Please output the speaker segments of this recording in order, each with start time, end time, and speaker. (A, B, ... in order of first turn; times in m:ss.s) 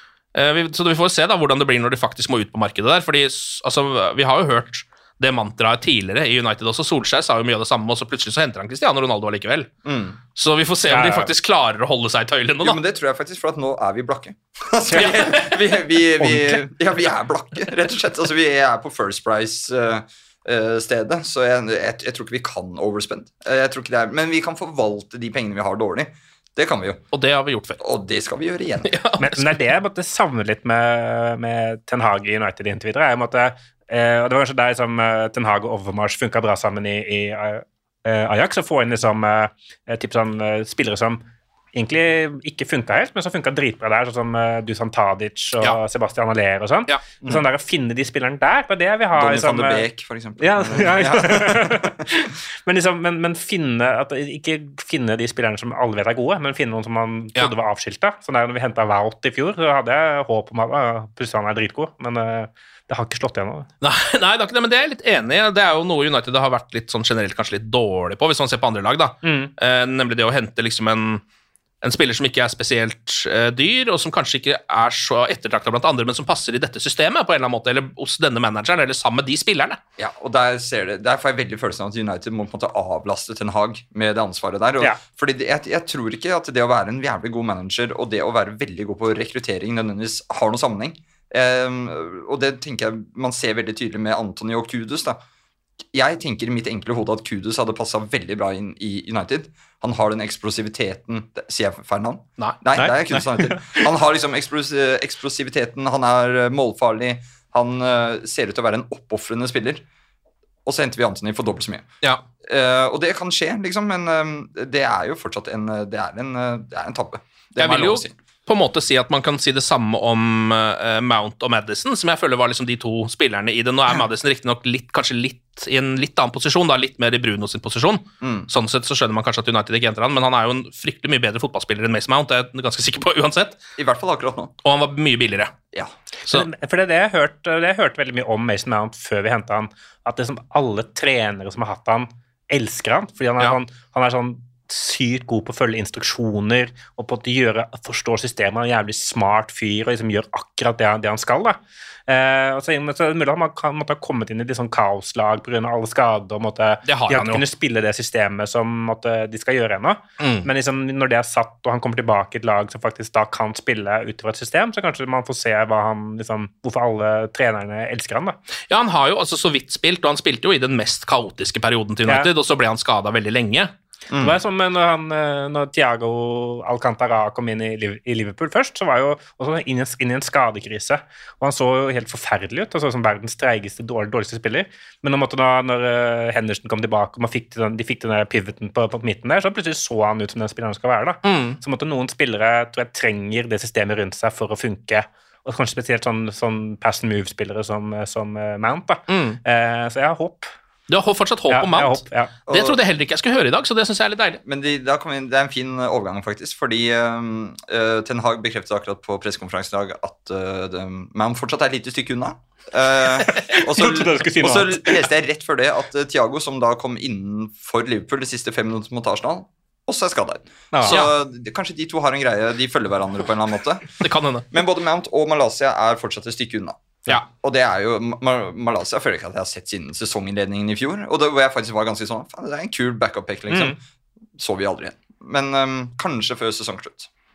0:00.4-0:09.7 A
0:09.9-0:10.2 B
0:10.4-0:12.8 A
0:10.9-0:11.3 C
0:12.6-0:27.0 B
0:15.0-0:15.6 A
0:16.2-0:16.6 C
0:27.1-0:27.8 A
0:27.8-0:28.9 B
0:28.8-0:29.4 A
0:29.2-0:41.2 C
0:41.7-0:49.8 C
0:49.1-0:52.0 B
0:50.4-1:03.7 C
1:03.8-1:11.2 A
1:09.2-1:09.5 C
1:11.8-1:19.8 A
1:20.0-1:35.2 B
1:35.9-1:49.8 B
1:42.8-1:43.8 C
1:50.6-1:51.9 B
1:52.4-1:58.2 B
1:57.6-2:13.6 A
2:08.2-2:08.5 B
2:13.8-2:14.5 B
2:14.6-2:15.5 A
2:16.3-2:48.4 C
2:36.9-2:37.4 A
2:40.2-2:40.5 A
2:48.7-2:53.7 A
2:54.1-2:54.4 B
2:54.2-3:20.5 C
3:11.2-3:11.6 A
3:19.1-3:19.4 A
3:20.9-3:24.4 A
3:21.5-3:22.3 C
3:22.5-3:22.8 B
3:24.5-3:43.9 B
3:33.5-3:35.1 C
3:40.7-3:41.0 C
3:40.9-3:41.1 A
3:44.0-3:44.5 A
3:44.5-3:53.8 B
3:53.5-3:53.8 C
3:54.4-3:57.1 B